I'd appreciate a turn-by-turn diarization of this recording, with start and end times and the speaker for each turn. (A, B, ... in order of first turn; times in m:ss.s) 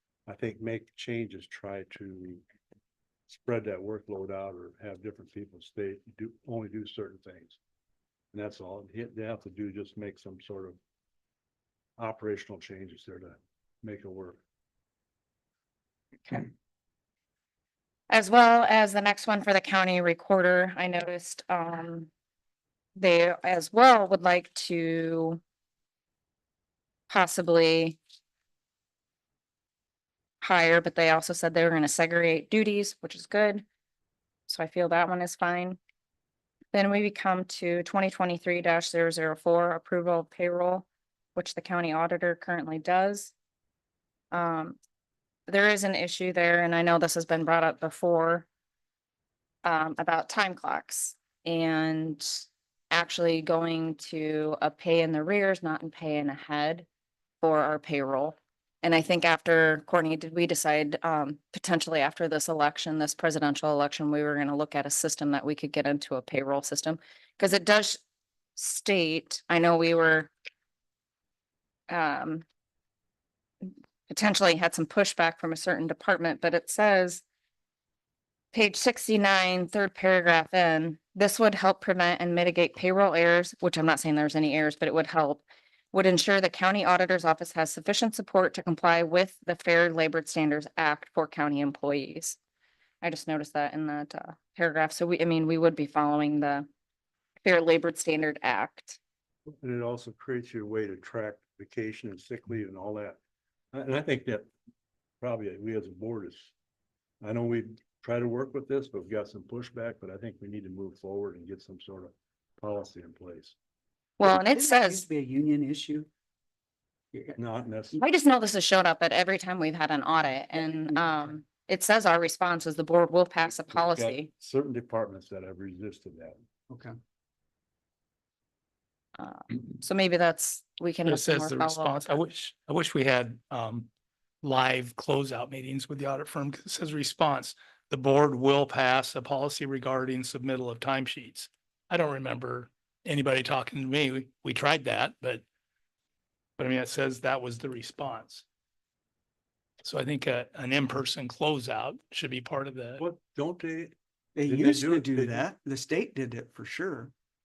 0:00.3-0:02.4 A
0:03.3-0:07.6 A
0:08.3-0:10.8 A
0:12.0-0:14.4 A
0:18.1-0:22.1 B
0:23.0-0:25.4 B
0:27.1-0:28.0 B
0:30.4-0:33.6 B
0:34.5-0:35.8 B
0:36.7-0:43.3 B
0:44.3-0:44.8 B
0:45.5-0:48.5 B
0:49.6-0:56.9 B
0:57.4-1:08.0 B
1:08.6-1:10.3 B
1:11.9-1:12.4 B
1:14.1-1:17.2 B
1:18.5-1:32.4 B
1:33.0-1:36.7 B
1:37.4-1:39.0 B
1:39.6-1:43.2 A
1:43.7-1:44.5 A
1:45.2-1:46.5 A
1:47.2-1:53.6 A
1:54.2-1:55.0 B
1:54.2-1:56.1 C
1:57.1-1:57.4 C
1:57.4-1:58.0 A
1:58.0-2:04.3 B
2:00.9-2:01.2 C
2:03.7-2:06.4 A
2:06.7-2:07.0 C
2:09.2-2:12.2 B
2:11.1-2:13.9 D
2:14.4-2:25.4 D
2:26.6-2:28.4 D
2:29.8-2:33.0 D
2:33.0-2:34.0 A
2:34.4-2:37.1 C
2:34.5-2:35.4 A